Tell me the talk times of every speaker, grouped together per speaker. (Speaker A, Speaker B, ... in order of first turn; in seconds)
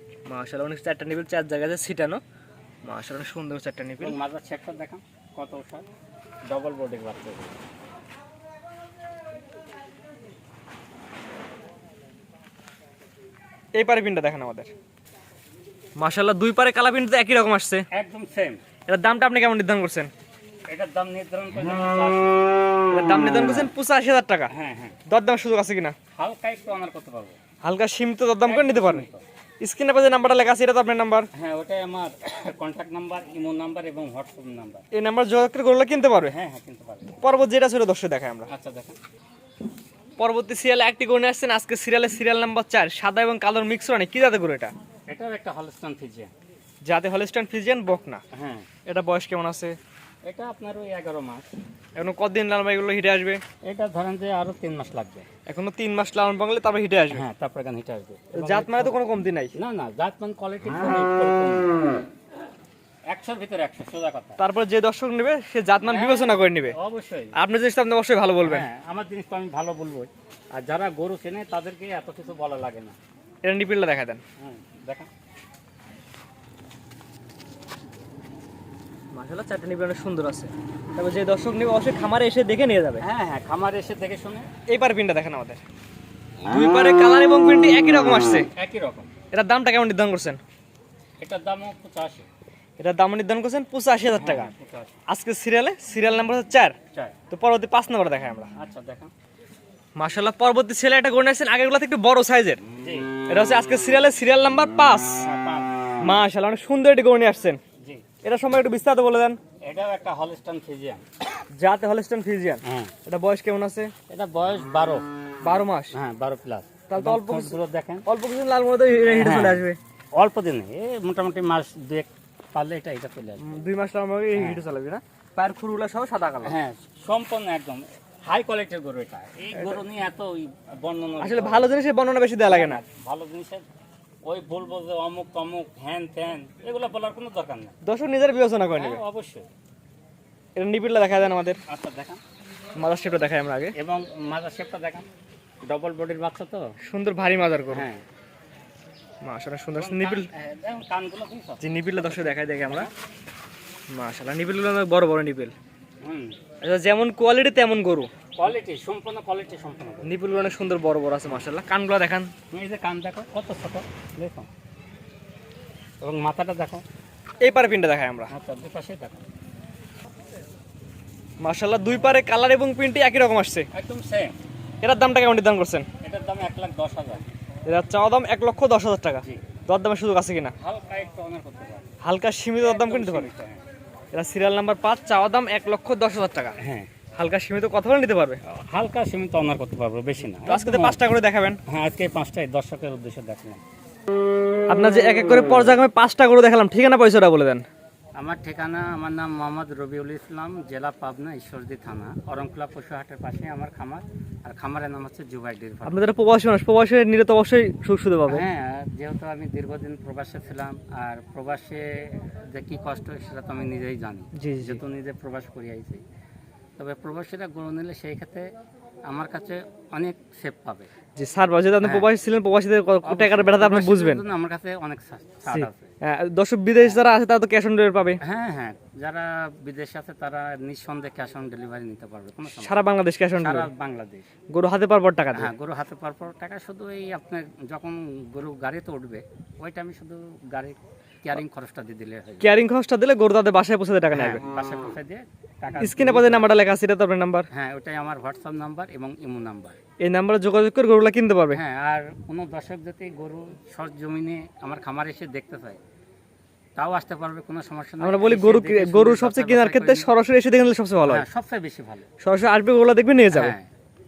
Speaker A: 0.3-2.2, 2.8-4.2, 13.7-14.7, 15.9-17.9, 18.9-20.1, 22.9-24.5, 25.1-25.9, 27.6-29.0, 29.6-31.3, 34.9-36.3, 37.2-38.5, 40.2-44.7, 46.8-48.2, 48.9-49.8, 52.0-53.4, 55.5-57.2, 58.3-59.5, 64.4-66.8, 67.3-68.7, 73.4-74.2, 79.1-83.0, 84.7-85.6, 86.5-88.5, 89.3-90.4, 92.8-94.5, 95.1-96.8, 97.3-98.5, 100.0-102.6, 103.3-105.2, 106.0-107.6, 108.2-109.4, 111.5-113.9, 115.4-115.9, 116.9-117.5, 118.0-119.8, 123.4-126.6, 131.2-132.8, 137.8-139.0, 140.6-141.6, 142.8-143.7, 146.8-147.9, 149.2-150.3, 151.6-152.9, 153.9-155.5, 156.6-158.1, 160.0-162.3, 167.4-168.3, 171.4-173.7, 174.8-175.8, 177.7-180.5, 182.0-183.3, 184.1-186.5, 187.2-188.4, 190.4-191.6, 194.7-197.6, 205.8-208.4, 214.3-214.8, 221.2-224.2, 225.5-228.2, 232.5-233.7, 234.5-235.5, 242.4-244.4, 245.8-247.5, 250.0-251.6, 258.0-261.2, 262.2-263.5
Speaker B: 4.0-5.8, 6.5-7.5, 17.9-18.6, 20.7-22.5, 24.5-25.0, 26.1-27.4, 28.4-29.2, 31.3-34.8, 36.3-37.1, 38.5-39.0, 45.1-46.3, 48.3-48.7, 50.2-51.5, 53.6-55.3, 57.1-59.0, 59.5-61.7, 63.1-64.4, 65.8-67.3, 68.4-73.0, 74.4-75.1, 83.0-84.5, 88.5-89.1, 91.2-92.3, 94.2-95.0, 98.5-99.1, 102.8-103.1, 105.2-106.2, 109.6-111.0, 112.6-112.9, 114.1-115.0, 115.9-118.0, 119.1-119.6, 120.1-123.5, 124.3-124.6, 126.4-131.7, 132.5-133.6, 134.2-137.8, 138.8-139.5, 141.7-142.2, 143.7-145.1, 145.6-146.7, 147.7-148.0, 149.7-151.6, 156.0-156.3, 158.4-160.1, 162.5-164.5, 166.0-166.8, 168.3-169.2, 173.7-174.4, 176.0-177.2, 180.6-181.9, 182.6-183.6, 186.6-186.9, 188.4-191.0, 191.7-193.6, 198.2-206.0, 208.3-216.0, 216.8-218.5, 219.1-220.9, 221.8-222.1, 223.0-225.9, 228.2-232.8, 233.4-234.3, 235.3-242.5, 244.1-246.5, 247.5-249.8, 251.5-255.8, 256.8-260.1, 261.0-262.1, 263.3-263.7